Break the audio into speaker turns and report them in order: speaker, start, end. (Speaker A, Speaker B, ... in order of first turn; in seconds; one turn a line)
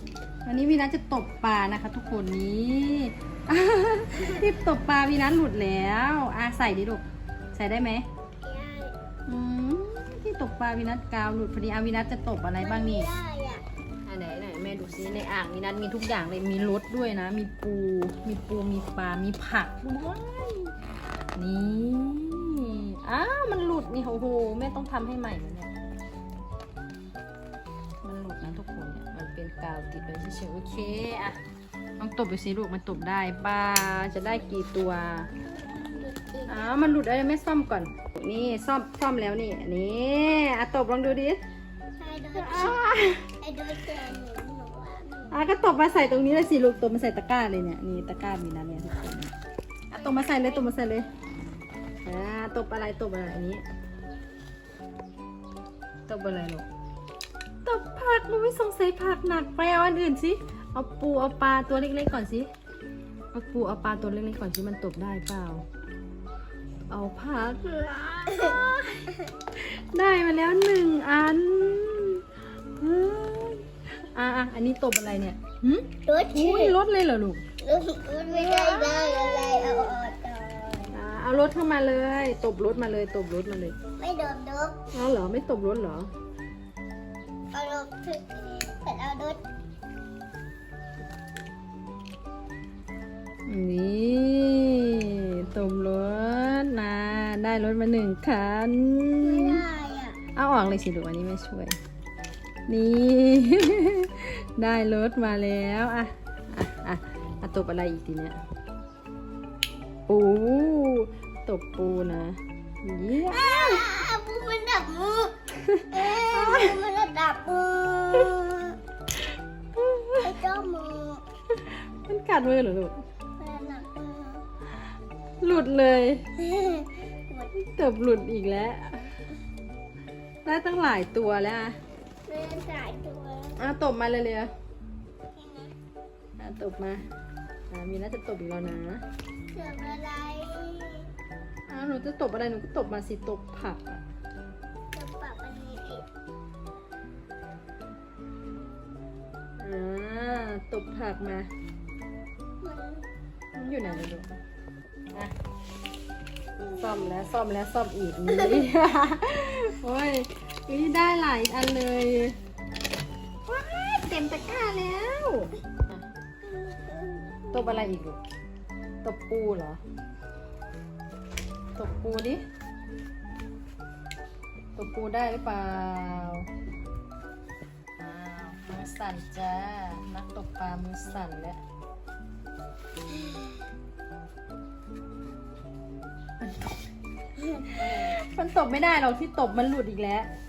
Speaker A: 0.5-8.1
Speaker B: 8.4-8.9
Speaker A: 9.3-13.1
Speaker B: 12.6-13.7
Speaker A: 14.1-20.7
Speaker A: 21.4-25.7
Speaker A: 28.0-31.4
Speaker A: 32.0-35.3
Speaker B: 35.4-36.8
Speaker A: 36.5-41.4
Speaker B: 42.0-42.9
Speaker A: 42.4-43.2
Speaker B: 43.4-45.4
Speaker A: 45.3-49.3
Speaker A: 49.9-51.1
Speaker B: 50.0-50.7
Speaker A: 52.0-53.6
Speaker A: 56.1-56.7
Speaker A: 57.6-62.5
Speaker A: 63.3-65.7
Speaker A: 66.9-72.2
Speaker A: 72.8-77.4
Speaker B: 76.0-76.8
Speaker B: 77.6-81.0
Speaker A: 78.4-78.9
Speaker A: 80.9-83.8
Speaker B: 84.0-84.8
Speaker A: 84.9-86.1
Speaker B: 87.5-89.4
Speaker A: 93.5-99.6
Speaker B: 99.2-100.2
Speaker A: 100.4-101.8
Speaker A: 102.7-108.4
Speaker A: 110.1-113.9
Speaker B: 113.3-115.4
Speaker A: 115.6-116.7
Speaker B: 115.9-118.8
Speaker A: 119.8-120.3
Speaker B: 120.2-121.2
Speaker A: 121.5-123.0
Speaker B: 123.4-124.5
Speaker A: 125.4-126.2
Speaker B: 126.4-127.6
Speaker A: 127.6-129.0
Speaker A: 130.4-131.8
Speaker B: 132.3-133.6
Speaker A: 133.6-134.5
Speaker B: 135.3-135.7
Speaker A: 136.4-137.0
Speaker A: 137.7-139.0
Speaker B: 139.5-141.1
Speaker A: 141.7-144.0
Speaker B: 144.9-146.1
Speaker A: 149.6-151.5
Speaker B: 152.6-153.1
Speaker A: 153.6-154.3
Speaker A: 156.6-162.4
Speaker A: 163.5-166.0
Speaker B: 166.4-167.9
Speaker A: 167.5-168.2
Speaker A: 169.0-169.8
Speaker A: 171.8-172.4
Speaker A: 174.8-176.5
Speaker A: 178.0-181.6
Speaker A: 186.4-186.9
Speaker A: 187.5-190.3
Speaker B: 187.5-188.1